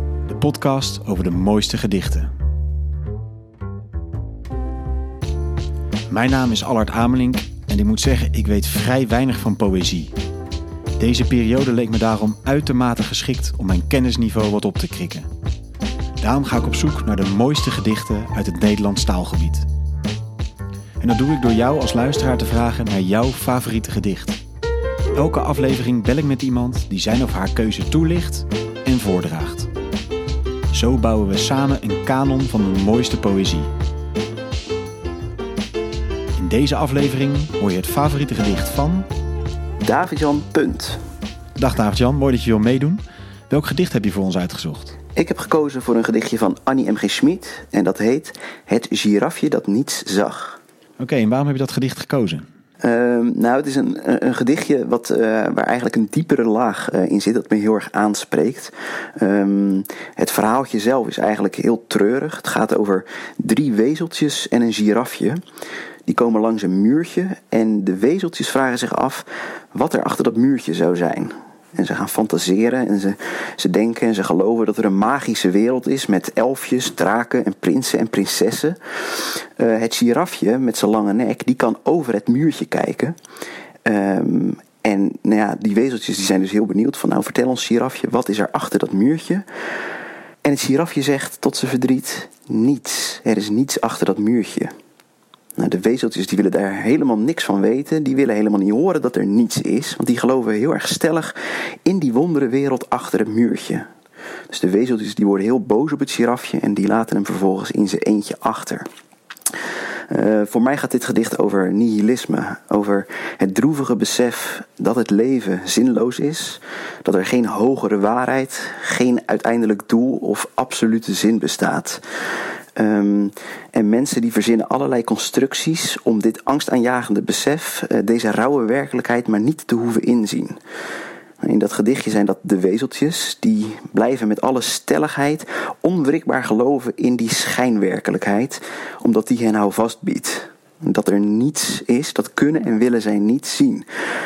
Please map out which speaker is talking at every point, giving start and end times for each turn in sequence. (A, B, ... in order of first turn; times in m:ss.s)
0:00.2-0:02.3 A
0:06.1-0:10.1 A
0:11.0-0:15.3 A
0:16.2-0:19.7 A
0:21.0-0:24.4 A
0:25.1-0:29.7 A
0:30.7-0:33.7 A
0:36.4-0:39.1 A
0:39.8-0:41.0 B
0:41.6-0:45.0 A
0:45.2-0:50.6 B
0:51.0-0:52.4 A
0:52.8-1:05.4 B
1:06.0-1:18.8 B
1:19.6-1:23.1 B
1:23.8-1:29.4 B
1:30.4-1:34.7 B
1:35.6-1:43.8 B
1:44.5-1:48.8 B
1:50.1-2:02.0 B
2:02.8-2:10.6 B
2:11.4-2:23.8 B